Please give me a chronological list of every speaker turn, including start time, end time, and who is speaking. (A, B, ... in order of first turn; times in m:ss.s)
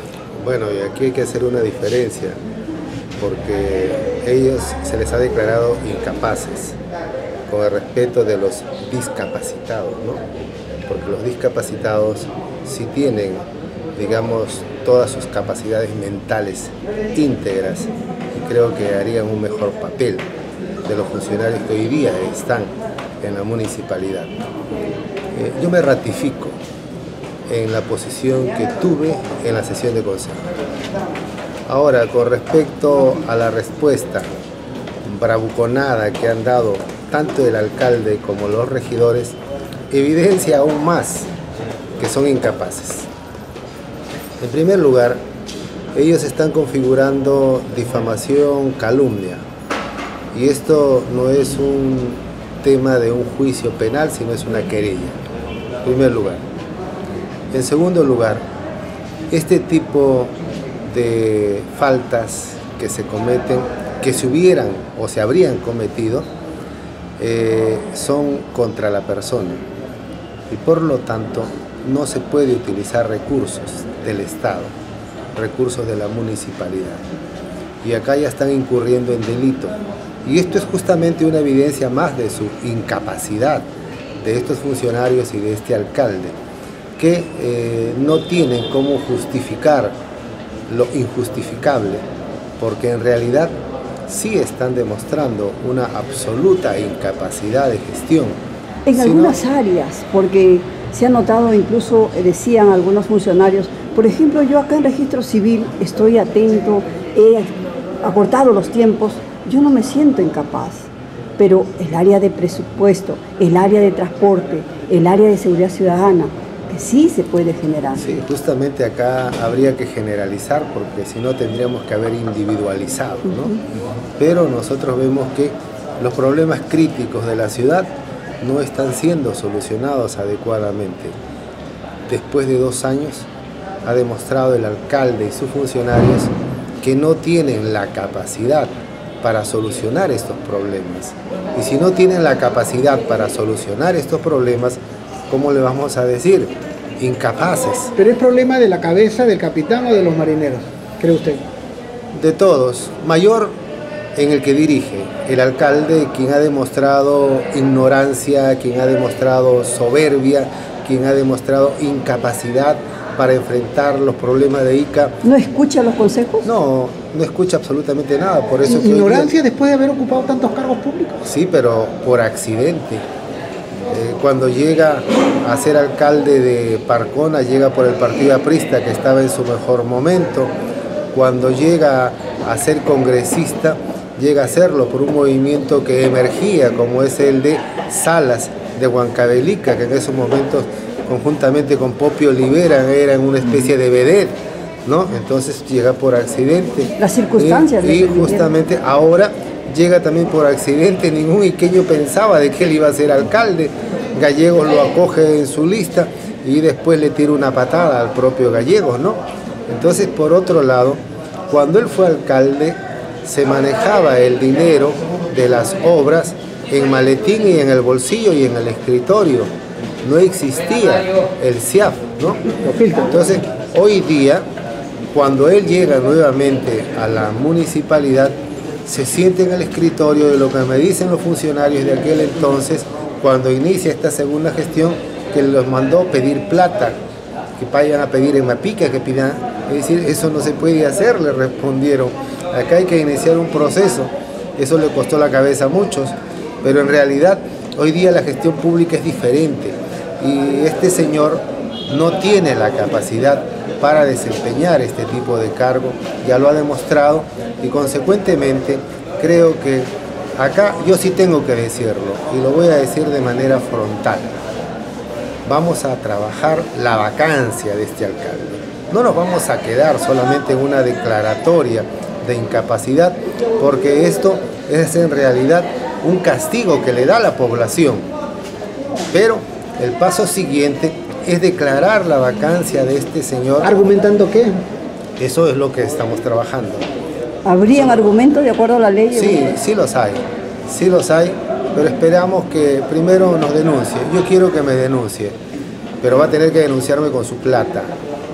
0:00.4-0:02.4 A
0:03.2-0:06.8 A
0:07.5-0:10.2 A
0:10.9-0:20.3 A
0:20.8-0:24.4 A
0:25.3-0:26.6 A
0:27.5-0:30.4 A
0:31.7-0:34.3 A
0:35.0-0:39.4 A
0:39.9-0:41.3 A
0:42.0-0:43.1 A
0:44.4-0:45.2 A
0:45.9-0:49.4 A
0:50.3-0:55.2 A
0:55.8-0:56.4 A
0:57.5-0:58.4 A
0:59.3-1:00.3 A
1:00.8-1:06.3 A
1:07.2-1:09.6 A
1:10.5-1:14.7 A
1:15.4-1:17.0 A
1:17.8-1:23.7 A
1:24.2-1:26.4 A
1:27.0-1:29.9 A
1:30.7-1:32.0 A
1:32.6-1:33.5 A
1:34.1-1:38.4 A
1:38.8-1:58.0 B
1:38.9-1:39.4 A
1:57.9-2:03.6 A
2:03.3-2:03.6 B
2:04.2-2:11.1 A
2:12.1-2:13.3 A
2:13.8-2:27.9 A
2:28.0-2:31.4 C
2:32.1-2:33.6 A
2:34.2-2:45.2 A
2:45.2-2:46.5 B
2:46.4-2:49.3 A
2:48.6-2:51.2 C
2:51.2-2:53.0 A
2:53.9-3:00.5 A
3:01.1-3:39.5 A
3:17.0-3:18.5 B
3:40.0-3:42.4 A
3:42.6-3:43.1 C
3:43.0-3:44.4 A
3:45.1-3:57.0 A
3:57.6-4:24.3 A
4:25.4-4:38.1 A
4:39.1-4:43.7 A
4:43.6-4:44.6 C
4:45.2-4:46.9 A
4:47.4-4:49.6 B
4:47.7-4:48.0 A
4:49.1-4:55.4 A
4:56.0-4:57.9 A